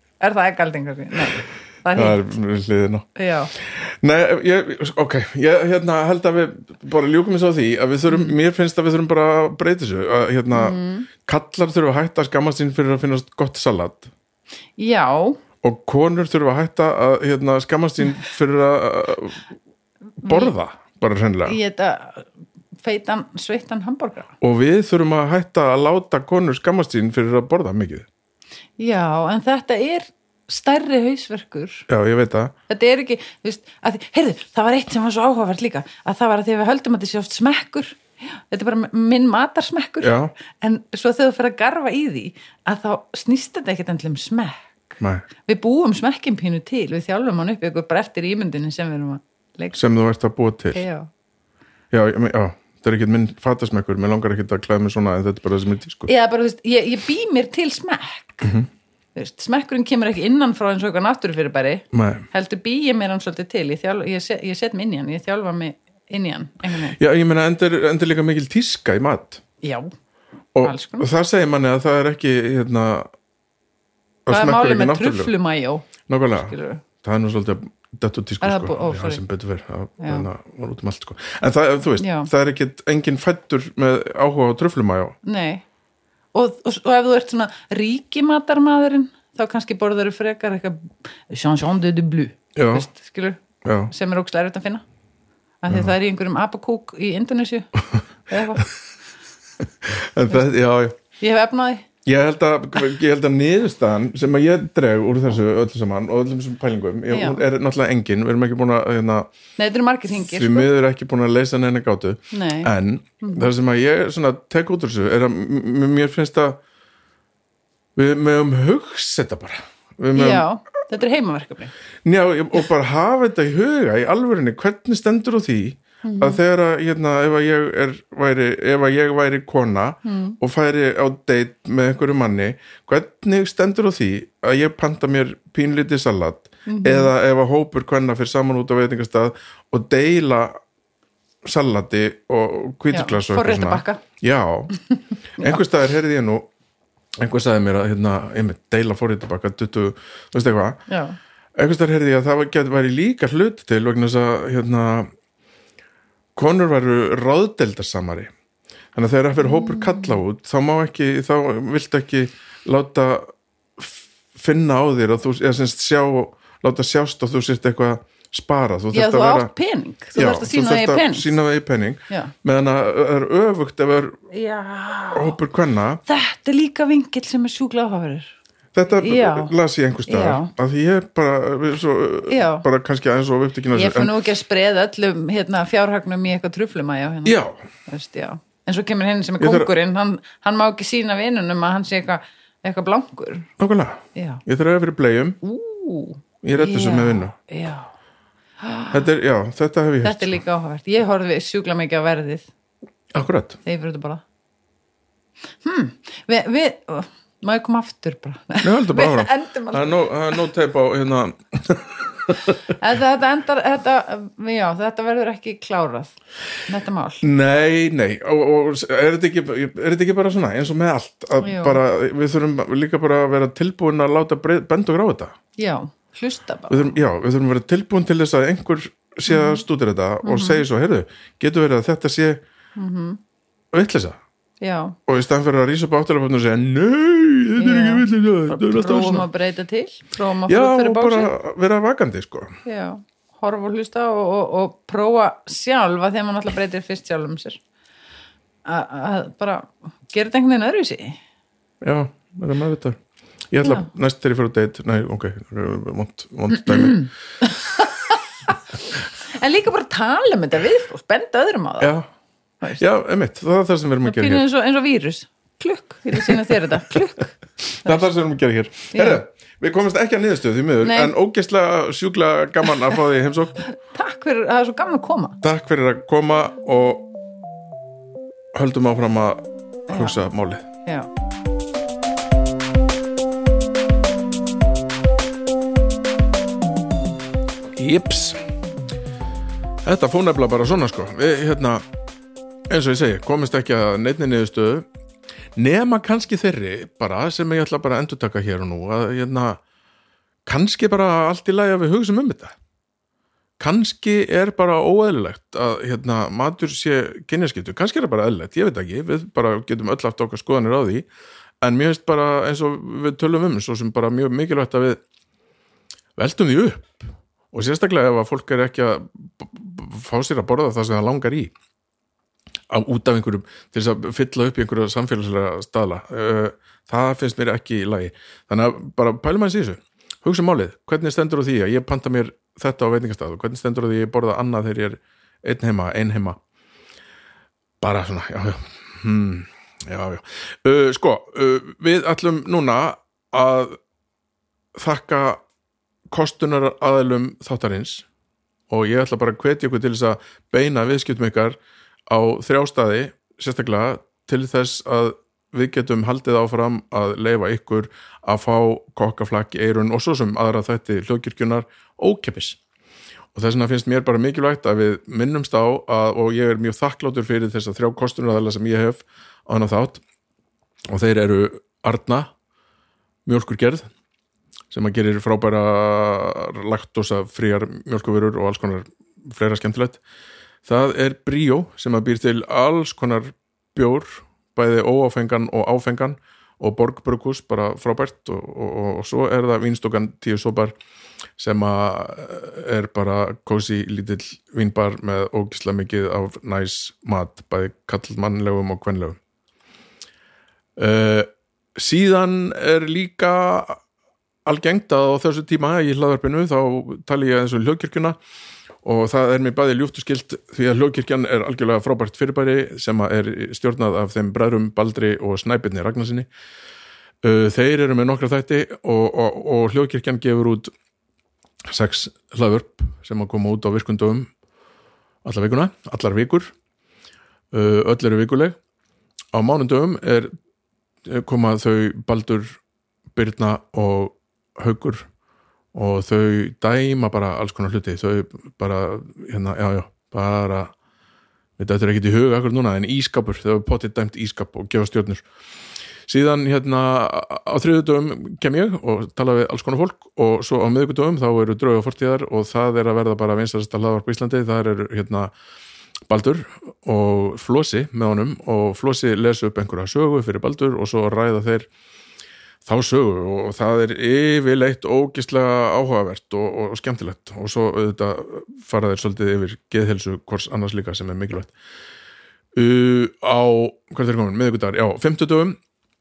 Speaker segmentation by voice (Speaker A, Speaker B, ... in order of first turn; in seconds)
Speaker A: 0.2-2.3, 3.1-3.5, 10.5-11.1, 14.8-15.4, 20.2-20.5, 21.4-22.3, 22.8-24.3, 28.8-31.9, 32.7-49.8, 50.7-51.1, 56.1-58.5, 59.1-67.0, 69.6-69.9, 70.6-71.1, 74.3-76.8, 78.4-79.2, 80.0-80.3, 82.0-82.3, 85.2-85.6, 86.3-94.8, 95.6-98.7, 101.2-101.8, 107.1-107.4, 109.6-110.7, 112.3-113.5, 120.1-121.7, 126.0-126.4, 130.0-130.4, 136.7-137.1, 142.9-144.0, 150.9-151.2, 159.4-160.2, 168.9-171.3, 174.3-175.4, 176.1-178.3, 178.9-179.5, 180.1-180.5, 182.3-182.7, 183.7-193.5, 194.1-194.4, 195.4-197.9, 198.6-199.0, 200.0-202.5, 203.6-204.2, 205.6-210.0, 212.7-216.1, 216.7-217.2, 221.4-221.8, 225.6-227.0, 229.3-229.6, 230.2-230.6, 232.8-233.2, 234.6-235.0, 237.6-241.3, 242.6-247.6, 248.7-251.2, 256.5-258.5, 259.3-261.9, 264.0-268.1, 268.9-269.2, 270.8-271.1, 273.7-275.4, 279.9-280.2
Speaker B: 1.9-14.1, 15.6-19.5, 20.2-21.6, 24.4-28.1, 31.9-32.5, 40.0-40.3, 45.0-45.2, 49.7-50.8, 51.9-56.1, 61.9-62.2, 67.0-69.4, 70.5-73.1, 74.3-75.3, 76.1-85.2, 92.5-92.9, 93.6-93.9, 99.8-101.0, 102.0-109.3, 110.2-116.6, 117.9-120.5, 122.0-140.6, 141.4-144.7, 145.4-146.5, 147.2-150.8, 151.6-155.1, 156.3-158.3, 158.9-169.5, 170.1-174.2, 175.1-176.0, 178.7-184.2, 187.2-187.6, 189.4-189.7, 193.6-195.4, 196.4-197.3, 198.9-200.4, 203.1-203.6, 208.6-212.6, 217.2-225.3, 226.7-232.4, 233.7-234.2, 235.1-239.3, 240.5-242.5, 251.8-253.0, 253.5-257.0, 261.8-262.1, 262.8-264.4, 266.2-266.4, 267.7-273.6, 275.4-277.1, 278.5-280.6, 287.7-288.4, 289.8-291.8, 292.7-294.9, 295.6-299.6, 300.4-302.6, 303.6-311.1, 311.6-315.0, 316.2-321.5, 322.7-336.4, 337.8-343.8, 344.7-345.4, 346.1-348.1, 348.7-351.6, 352.1-362.6, 363.3-370.0, 370.9-372.3, 373.2-373.9, 374.7-380.0, 380.6-390.8, 391.4-399.2, 400.8-403.8, 404.4-408.2, 408.8-416.3, 417.2-420.7, 421.7-424.3, 425.2-426.5, 427.5-428.6, 429.3-430.3, 431.1-432.6, 433.1-435.1, 435.7-440.7, 441.6-445.2, 446.1-455.3, 456.1-461.7, 462.6-471.5, 472.5-475.6